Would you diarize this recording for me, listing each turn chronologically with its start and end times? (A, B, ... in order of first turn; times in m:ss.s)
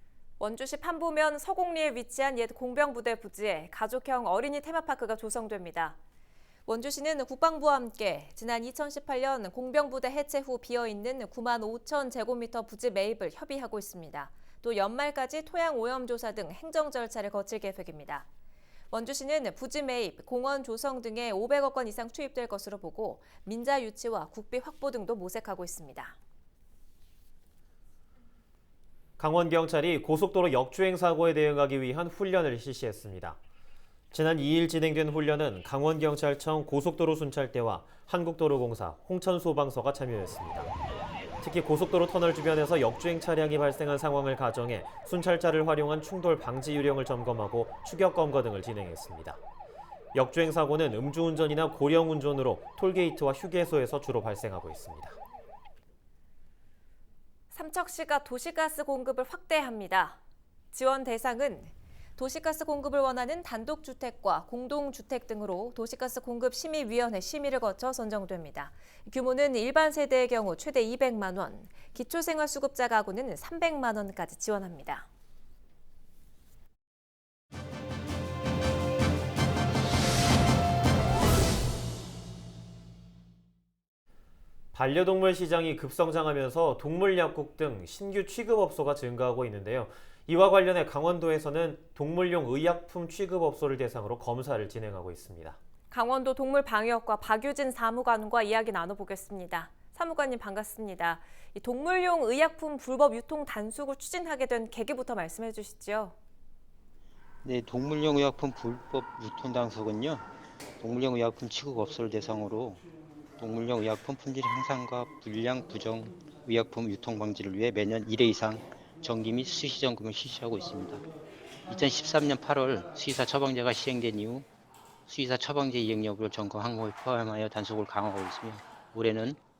0:00.4-0:06.0 A
0:06.6-0:18.3 A
0:18.9-0:26.2 A
0:29.2-0:33.4 B
0:34.1-0:40.7 B
0:41.4-0:49.4 B
0:50.1-0:55.2 B
0:57.5-1:00.2 A
1:00.7-1:15.0 A
1:24.7-1:35.6 B
1:35.9-1:46.1 A
1:47.4-1:50.2 C
1:50.8-1:52.8 C
1:53.4-2:01.0 C
2:01.7-2:04.5 C
2:05.1-2:09.4 C